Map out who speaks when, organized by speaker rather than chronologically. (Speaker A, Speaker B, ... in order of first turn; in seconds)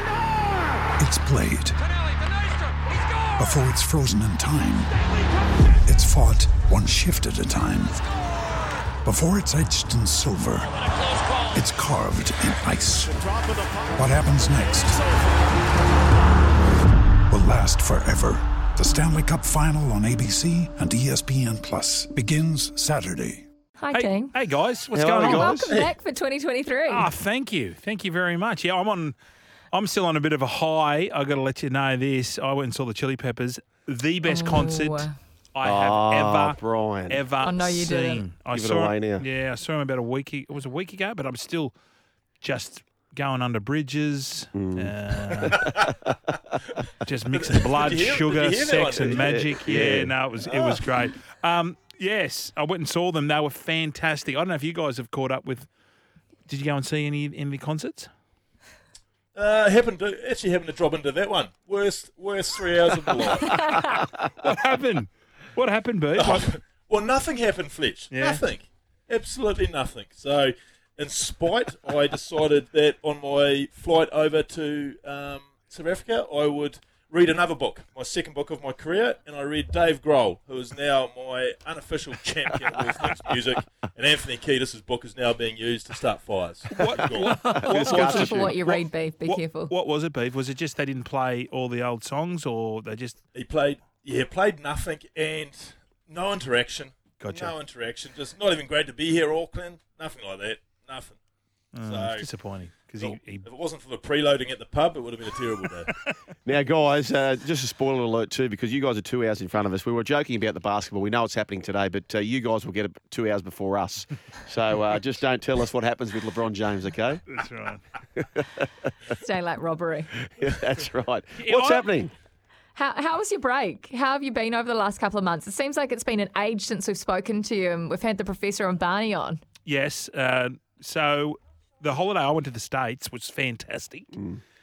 Speaker A: 1.0-1.8, 3.0-8.0, 9.0-10.8, 11.5-13.1, 14.0-15.0, 17.3-23.4
Speaker B: 13.1-14.1, 24.9-25.7, 35.6-37.2, 38.5-39.2, 44.5-45.9, 48.9-50.1, 87.0-88.6, 106.4-117.2, 118.2-118.7, 120.2-122.1
Speaker C: 23.8-24.3, 25.2-27.1, 34.2-35.1, 37.4-38.2, 87.7-89.7, 119.2-120.1, 122.7-129.4
Speaker D: 23.9-25.7, 26.9-29.1, 29.7-41.7, 42.4-45.7, 47.0-55.7, 56.5-58.1, 63.7-66.5, 68.1-68.4, 86.7-93.2, 97.2-97.5, 101.7-103.4, 105.9-106.1, 117.3-117.8, 121.3-121.9, 129.7-134.2
Speaker E: 25.7-25.9, 47.3-49.2, 50.4-50.9, 59.3-63.7, 66.1-87.6, 93.3-101.2, 101.8-102.3, 103.0-105.9